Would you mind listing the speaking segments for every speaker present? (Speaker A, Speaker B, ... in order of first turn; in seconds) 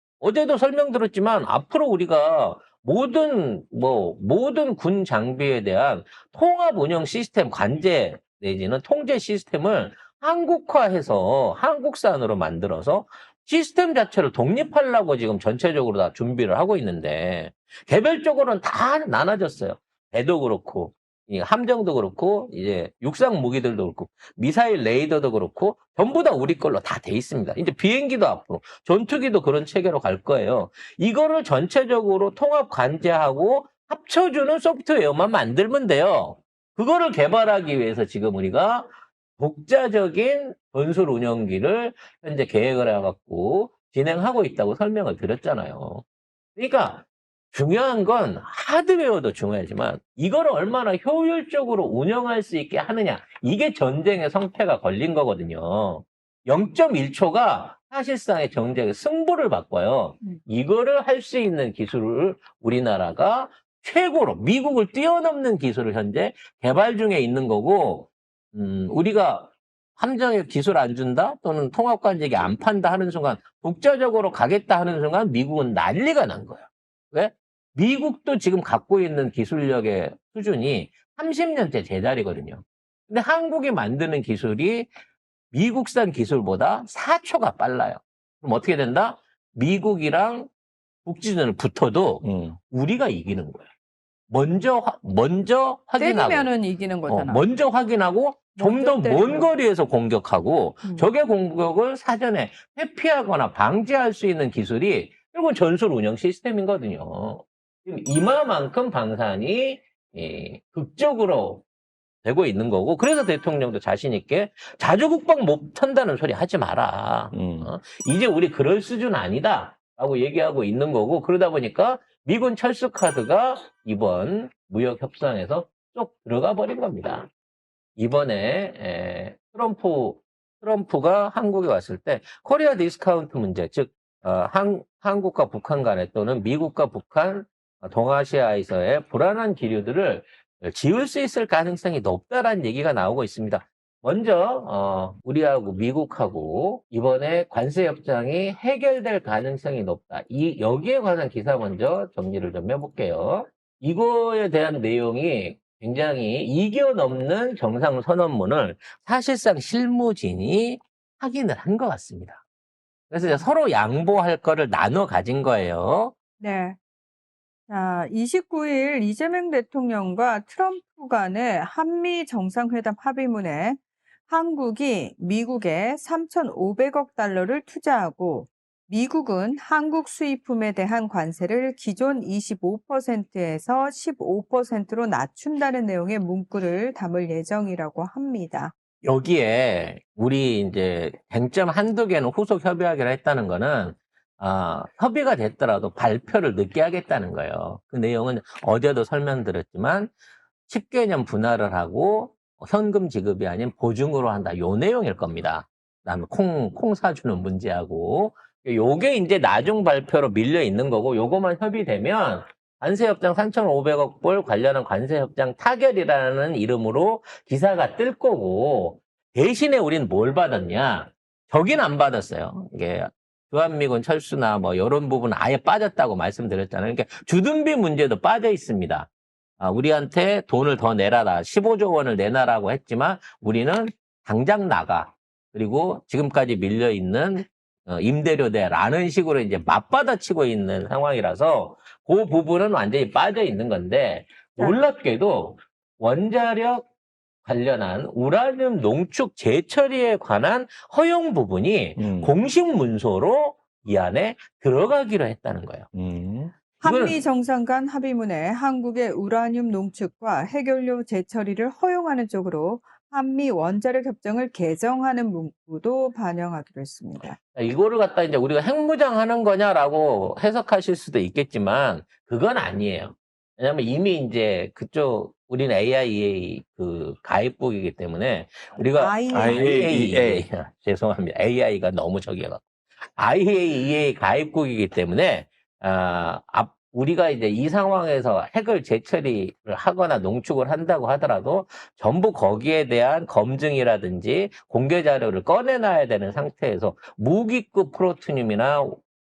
Speaker A: 0.2-46.0, 46.5-84.9, 85.5-90.5, 91.0-93.7, 94.3-96.5, 97.1-111.6, 112.2-127.3, 128.0-162.4, 163.1-166.1, 189.0-200.1, 200.7-246.9, 247.4-255.9, 256.8-257.2, 267.5-282.6, 283.1-299.0
Speaker B: 92.2-92.6, 117.3-117.7, 252.0-252.3, 255.9-256.5, 279.3-280.4
Speaker C: 96.0-97.5, 98.5-99.5, 100.8-101.1, 166.4-166.8, 167.7-188.7, 256.8-267.4, 278.9-279.7